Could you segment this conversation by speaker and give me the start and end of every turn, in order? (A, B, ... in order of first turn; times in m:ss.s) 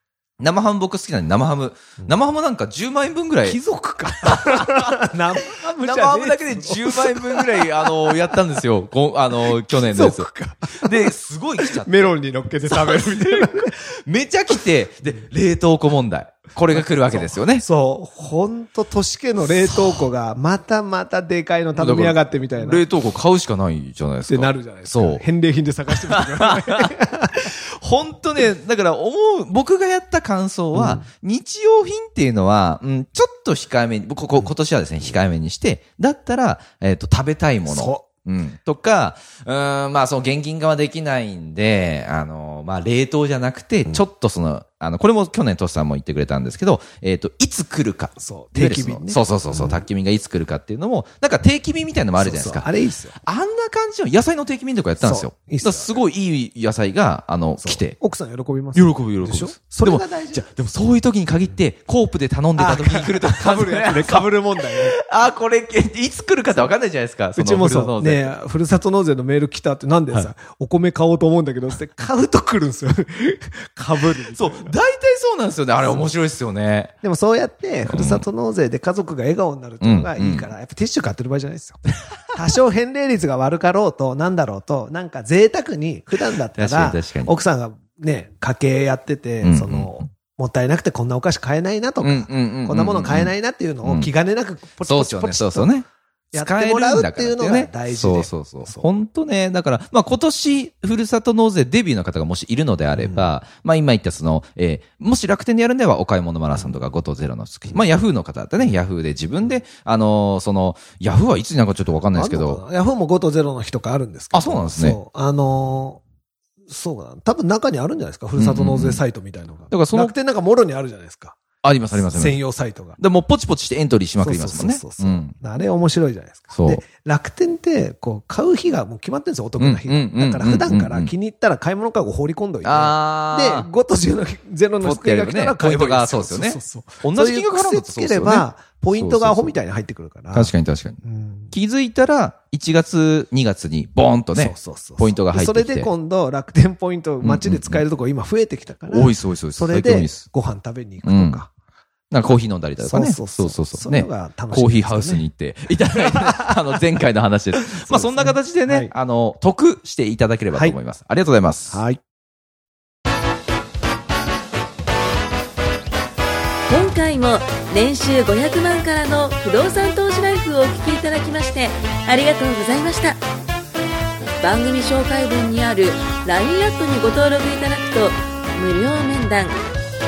0:00.4-0:03.6 A
0:03.4-0:08.3 B
0:04.2-0:04.9 A
0:05.5-0:12.1 A
0:09.5-0:13.7 B
0:12.6-0:17.6 A
0:16.7-0:22.8 B
0:19.6-0:20.0 A
0:21.7-0:25.2 A
0:24.3-0:27.5 B
0:25.9-0:26.9 A
0:27.4-0:52.7 A
0:30.7-0:31.0 B
0:37.6-0:38.0 B
0:48.2-0:49.8 B
0:52.2-0:53.1 B
0:53.2-0:58.0 A
0:55.0-0:56.0 B
0:57.6-1:00.5 B
0:58.7-1:08.3 A
1:02.6-1:05.0 B
1:07.3-1:14.8 B
1:14.0-1:16.9 A
1:17.0-1:35.8 B
1:17.8-1:18.2 A
1:19.8-1:20.5 A
1:26.5-1:27.3 A
1:29.4-1:29.9 A
1:32.0-1:33.3 A
1:33.8-1:34.1 A
1:34.8-1:52.6 A
1:36.3-1:38.9 B
1:43.0-1:43.3 B
1:52.1-1:56.0 B
1:54.3-1:55.0 A
1:56.7-2:01.4 B
1:58.4-1:59.0 A
1:59.7-2:00.1 A
2:01.6-2:02.4 A
2:01.9-2:03.0 B
2:03.0-2:05.3 A
2:04.2-2:21.5 B
2:06.5-2:06.8 A
2:09.6-2:11.1 A
2:12.6-2:13.7 A
2:14.8-2:19.6 A
2:20.3-2:21.0 A
2:21.5-2:25.9 A
2:24.3-2:31.5 B
2:27.2-2:27.8 A
2:28.9-2:30.2 A
2:31.0-2:31.4 A
2:32.1-2:41.8 A
2:32.8-2:35.2 B
2:35.9-2:36.7 B
2:37.7-2:38.9 B
2:41.7-2:42.0 B
2:46.7-2:53.2 C
2:54.4-2:59.6 C